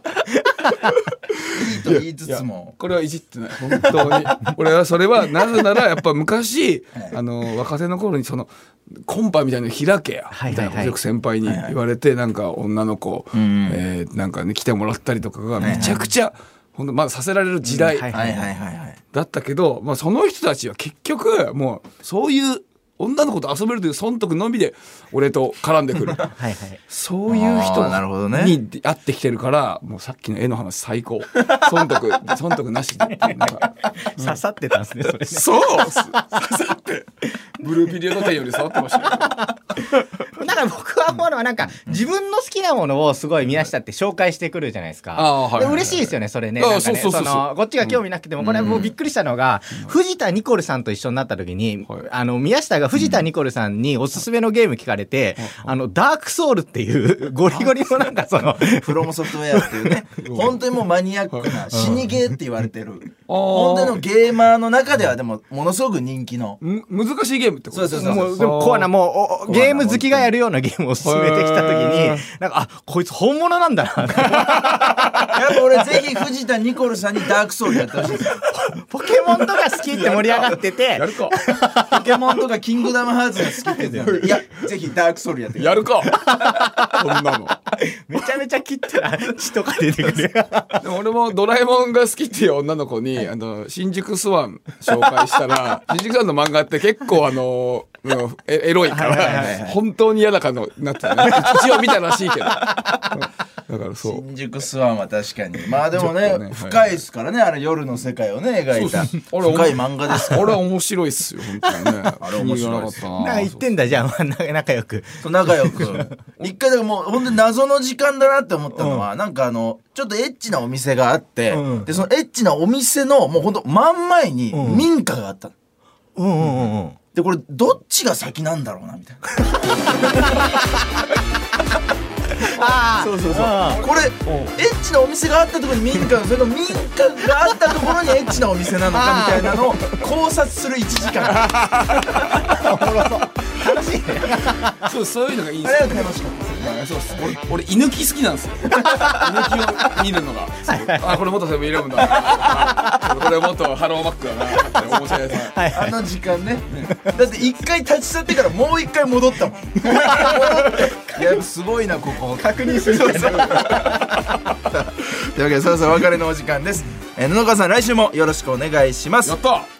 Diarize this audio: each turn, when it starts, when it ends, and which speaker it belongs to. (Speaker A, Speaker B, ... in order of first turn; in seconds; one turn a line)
Speaker A: 0.3-0.9
Speaker B: 1.3-18.2
Speaker C: 1.5-2.8
Speaker C: 3.7-4.1
Speaker A: 10.3-11.0
Speaker C: 11.4-11.7
Speaker C: 13.3-13.8
Speaker C: 15.6-16.0
Speaker A: 15.6-16.1
Speaker A: 17.6-18.5
Speaker C: 18.1-19.0
Speaker B: 19.1-26.4
Speaker A: 26.3-26.8
Speaker B: 26.9-34.4
Speaker C: 27.3-28.6
Speaker A: 33.2-36.4
Speaker B: 35.2-39.8
Speaker A: 38.9-60.0
Speaker B: 45.1-48.0
Speaker C: 48.4-48.9
Speaker C: 53.0-53.2
Speaker B: 55.4-55.7
Speaker B: 57.5-57.8
Speaker C: 58.6-66.6
Speaker B: 60.2-60.6
Speaker B: 61.3-61.6
Speaker A: 61.7-62.2
Speaker B: 63.3-64.0
Speaker B: 66.6-68.9
Speaker C: 67.7-68.5
Speaker A: 67.9-76.0
Speaker B: 69.5-70.2
Speaker C: 69.5-70.3
Speaker B: 71.0-72.2
Speaker B: 74.2-75.3
Speaker C: 75.2-78.4
Speaker A: 78.4-82.1
Speaker B: 79.5-81.4
Speaker C: 81.8-86.3
Speaker A: 83.4-84.2
Speaker B: 84.0-84.4
Speaker B: 85.6-87.6
Speaker A: 86.2-87.0
Speaker A: 87.7-90.8
Speaker B: 90.7-104.2
Speaker A: 98.9-99.6
Speaker C: 99.2-99.8
Speaker A: 101.2-101.5
Speaker C: 104.0-110.6
Speaker B: 105.9-107.0
Speaker B: 108.7-113.6
Speaker A: 111.6-111.9
Speaker C: 112.2-113.0
Speaker A: 113.2-116.1
Speaker C: 115.2-125.5
Speaker A: 118.7-119.1
Speaker A: 121.5-122.0
Speaker A: 124.5-124.9
Speaker A: 126.2-127.0
Speaker C: 127.1-130.0
Speaker B: 129.9-130.4
Speaker A: 129.9-130.6
Speaker A: 132.4-133.8
Speaker B: 132.6-134.5
Speaker C: 133.0-141.5
Speaker A: 138.9-139.6
Speaker B: 141.4-142.4
Speaker A: 142.4-144.9
Speaker B: 144.8-155.6
Speaker C: 145.6-146.9
Speaker C: 148.7-149.1
Speaker A: 148.9-149.2
Speaker A: 150.6-151.2
Speaker A: 152.4-153.1
Speaker A: 154.9-156.0
Speaker C: 155.7-164.0
Speaker A: 160.0-160.8
Speaker B: 160.1-160.4
Speaker A: 162.3-164.3
Speaker B: 163.0-164.6
Speaker C: 164.7-169.4
Speaker B: 169.2-169.7